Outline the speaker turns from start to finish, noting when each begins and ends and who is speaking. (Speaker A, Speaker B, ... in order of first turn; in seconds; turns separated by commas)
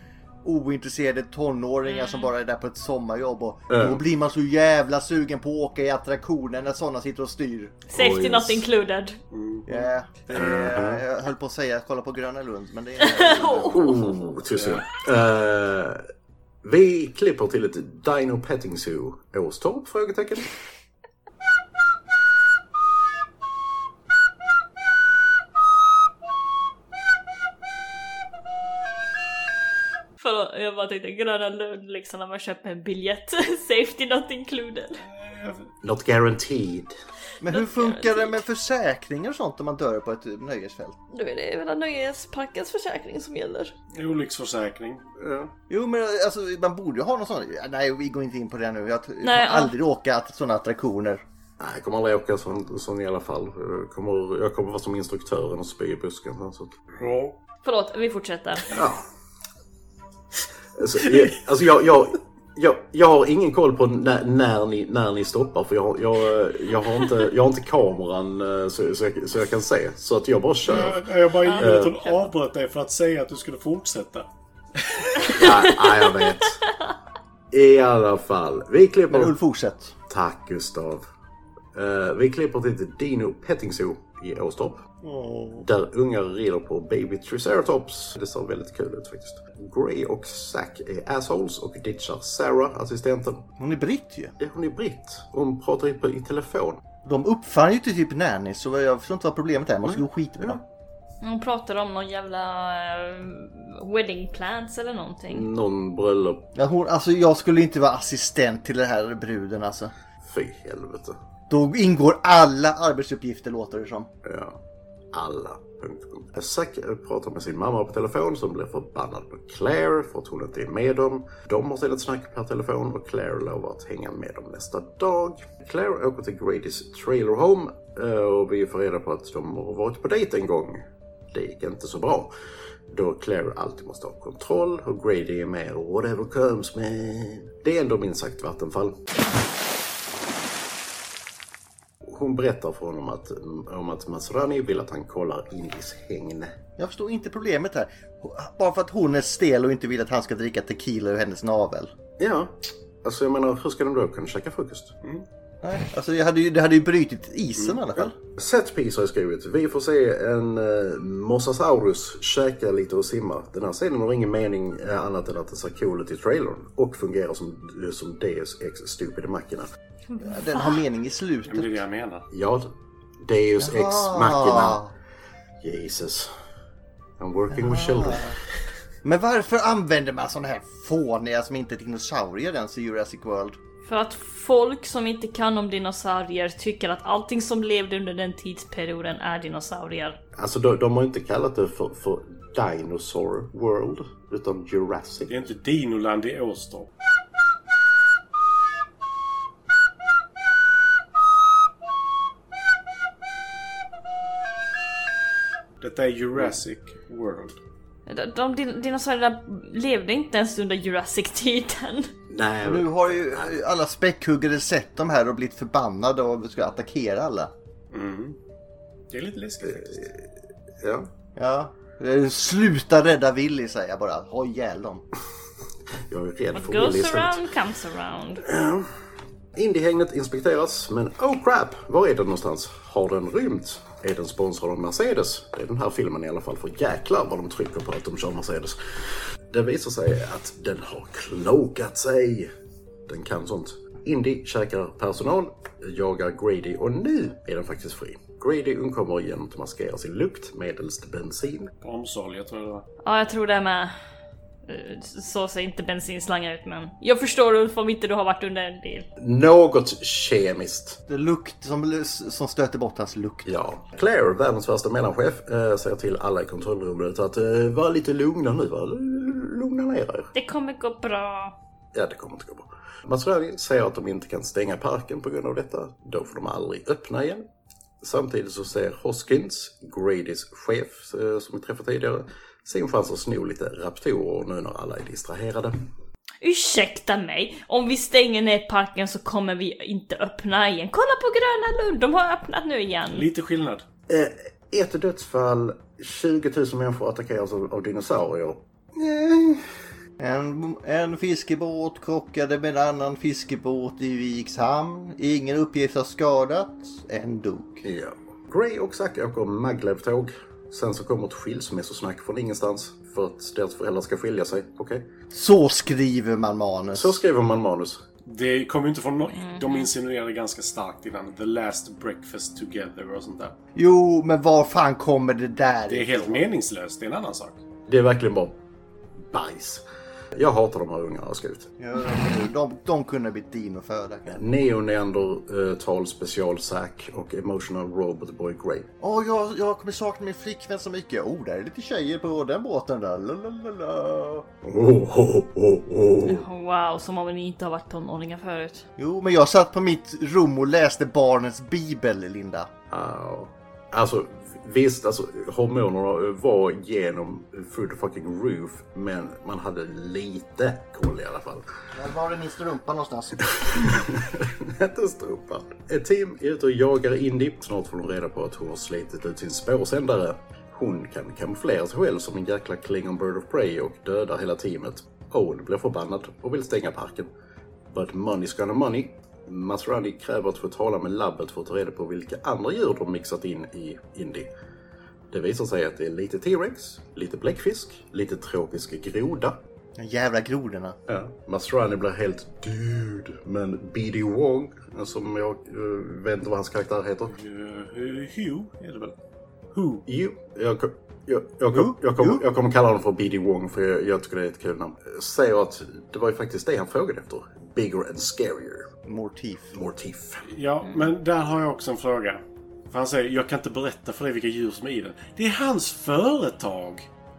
Speaker A: 0.4-7.8, Speaker B: 1.9-2.3, Speaker C: 3.7-4.0, Speaker B: 7.9-9.2, Speaker C: 7.9-8.7, Speaker D: 9.3-9.9, Speaker A: 9.7-14.2, Speaker C: 10.3-11.0, Speaker B: 13.0-14.2, Speaker C: 13.6-16.0, Speaker C: 16.6-20.5, Speaker B: 30.2-35.0, Speaker D: 35.0-35.7, Speaker C: 35.8-36.9, Speaker A: 37.4-41.0, Speaker B: 37.5-38.4, Speaker B: 41.1-43.7, Speaker D: 43.9-45.0, Speaker C: 45.2-45.5, Speaker A: 45.7-51.2, Speaker B: 49.2-49.7, Speaker C: 51.6-56.7, Speaker D: 57.0-57.4, Speaker B: 57.6-58.6, Speaker C: 58.7-59.0, Speaker C: 60.8-71.0, Speaker D: 70.7-74.3, Speaker B: 71.4-72.2, Speaker C: 71.6-72.0, Speaker D: 74.8-75.3, Speaker B: 75.2-76.9, Speaker C: 75.3-76.6, Speaker C: 77.5-79.3, Speaker A: 79.1-79.9, Speaker C: 80.1-81.0, Speaker C: 81.7-84.8, Speaker A: 85.0-85.7, Speaker C: 85.6-93.5, Speaker A: 93.6-94.3, Speaker C: 94.4-96.8, Speaker A: 97.0-100.6, Speaker C: 99.8-100.6, Speaker B: 101.2-105.4, Speaker C: 105.3-106.5, Speaker A: 106.5-109.9, Speaker C: 110.2-111.2, Speaker A: 111.5-114.1, Speaker C: 114.2-114.6, Speaker C: 115.1-132.3, Speaker C: 132.9-138.9, Speaker C: 142.0-146.5, Speaker A: 146.8-151.9, Speaker C: 152.2-154.9, Speaker A: 155.6-158.2, Speaker C: 158.0-169.7, Speaker B: 170.1-170.8, Speaker A: 170.2-171.7, Speaker D: 171.5-172.2, Speaker C: 172.3-172.7, Speaker C: 173.2-174.8, Speaker A: 173.6-174.9, Speaker C: 175.6-176.3, Speaker C: 177.2-178.2, Speaker A: 177.5-178.4, Speaker A: 179.0-183.6, Speaker B: 183.8-190.2, Speaker C: 190.4-195.4, Speaker D: 195.3-196.9, Speaker D: 205.8-207.6, Speaker B: 208.1-212.1, Speaker C: 212.3-213.5, Speaker A: 212.6-217.5, Speaker D: 217.9-218.4, Speaker D: 219.1-220.0, Speaker C: 219.6-220.2, Speaker C: 220.8-221.1, Speaker A: 221.4-225.0, Speaker C: 226.1-227.4, Speaker B: 226.5-228.4, Speaker C: 228.4-228.9, Speaker C: 229.5-242.5, Speaker C: 243.1-251.7, Speaker D: 251.8-252.8, Speaker B: 253.0-253.9, Speaker B: 254.7-259.1, Speaker C: 259.2-261.0, Speaker A: 261.1-263.5, Speaker C: 263.4-270.3, Speaker B: 270.3-271.5, Speaker C: 271.9-277.4, Speaker C: 278.0-285.9, Speaker B: 286.4-293.2, Speaker D: 293.1-293.9, Speaker C: 294.1-299.6, Speaker A: 300.2-307.9, Speaker C: 307.8-315.1, Speaker A: 315.3-317.2, Speaker C: 316.9-318.0, Speaker D: 318.2-323.6, Speaker B: 319.4-319.9, Speaker A: 323.8-326.4, Speaker D: 325.9-327.6, Speaker C: 327.9-328.6, Speaker C: 329.2-329.8, Speaker C: 330.3-331.7, Speaker A: 331.8-334.4, Speaker C: 334.3-338.9, Speaker A: 339.0-344.5, Speaker C: 344.6-346.4, Speaker B: 346.2-348.9, Speaker A: 349.0-352.7, Speaker C: 352.9-361.6, Speaker A: 361.9-363.9, Speaker C: 363.6-377.3, Speaker C: 377.9-384.5, Speaker C: 385.3-389.6, Speaker A: 390.0-391.0, Speaker C: 391.1-397.3, Speaker D: 397.3-399.1, Speaker D: 399.7-400.0, Speaker C: 400.1-408.9, Speaker A: 401.7-402.4, Speaker A: 409.0-409.8, Speaker C: 409.7-410.5, Speaker D: 410.5-417.1, Speaker B: 410.9-411.1